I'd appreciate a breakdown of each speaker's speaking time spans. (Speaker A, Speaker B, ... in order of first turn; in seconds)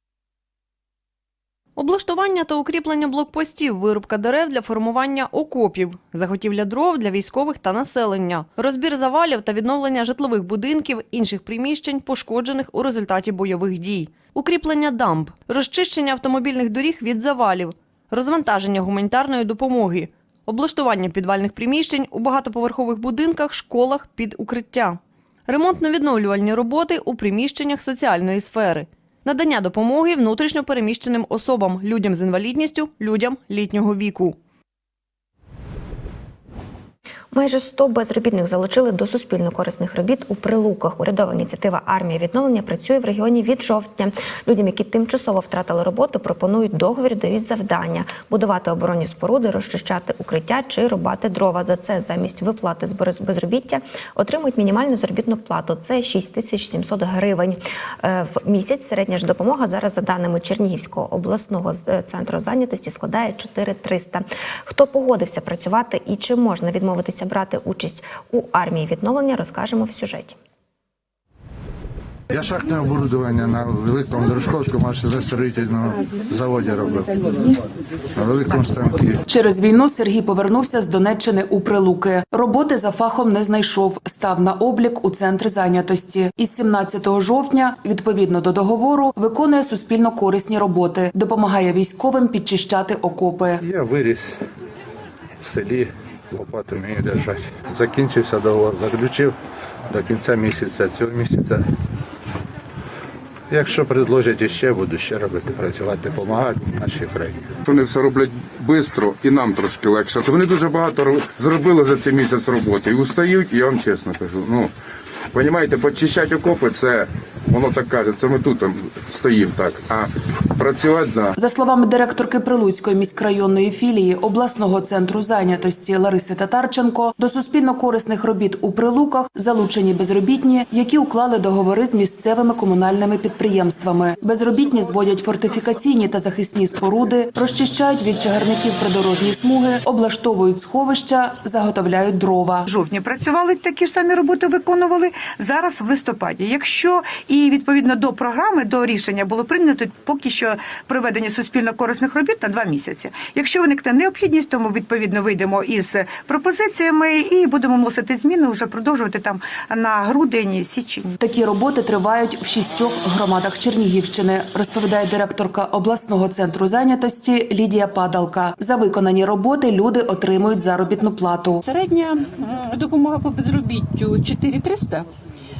Speaker A: 1.8-34.4
Speaker B: 37.3-70.4
Speaker C: 72.3-77.5, 78.1-79.2, 93.6-94.3, 95.4-99.3, 99.9-101.6, 103.5-107.5
Speaker D: 79.3-93.6, 121.3-142.6, 161.2-171.6
Speaker E: 107.6-114.7, 115.3-121.3
Speaker F: 142.7-161.2
Speaker G: 171.7-175.1